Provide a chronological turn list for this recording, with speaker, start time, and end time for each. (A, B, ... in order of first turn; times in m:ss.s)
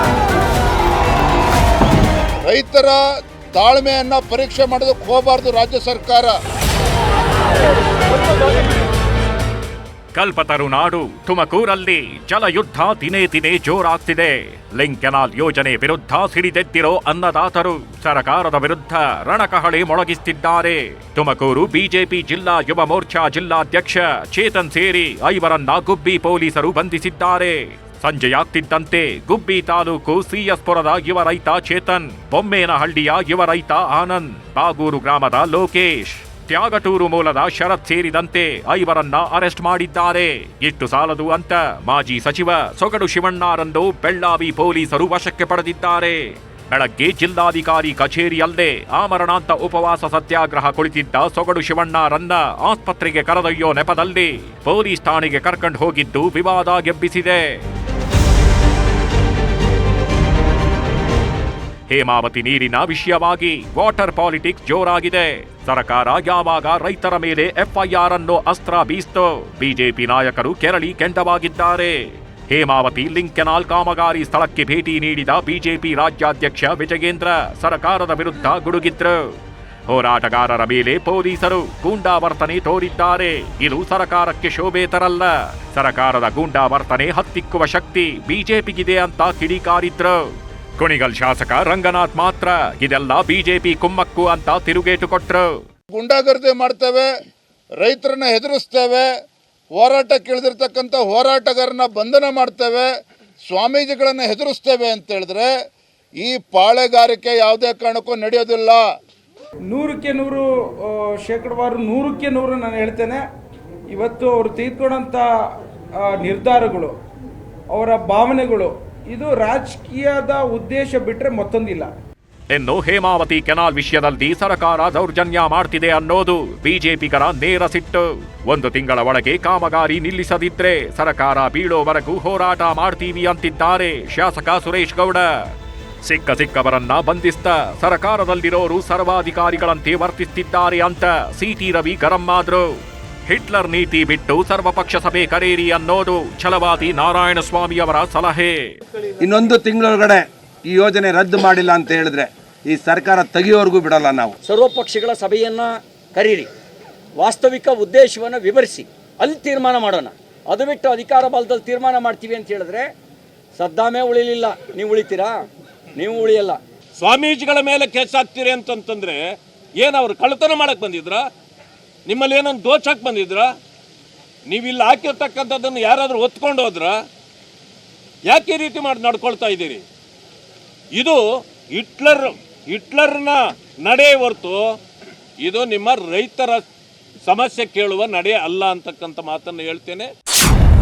0:02.5-0:06.4 A
0:10.1-0:57.6 B
1:01.9-1:19.4 B
1:19.9-1:35.5 B
1:35.9-1:37.1 A
1:37.8-1:39.1 A
1:39.7-1:42.9 A
1:43.4-1:45.5 A
1:46.2-1:48.8 A
1:49.7-1:53.3 C
1:53.9-1:57.0 C
1:57.7-2:01.9 C
2:02.5-2:28.8 B
2:29.2-2:34.4 D
2:34.4-2:36.5 E
2:37.2-2:42.9 E
2:43.6-2:45.4 E
2:46.0-2:46.6 E
2:47.0-2:49.2 F
2:49.8-2:51.2 F
2:52.1-2:53.5 F
2:54.5-2:57.0 F
2:58.3-2:59.8 F
3:00.9-3:04.7 F
3:05.4-3:06.6 F
3:07.3-3:10.1 F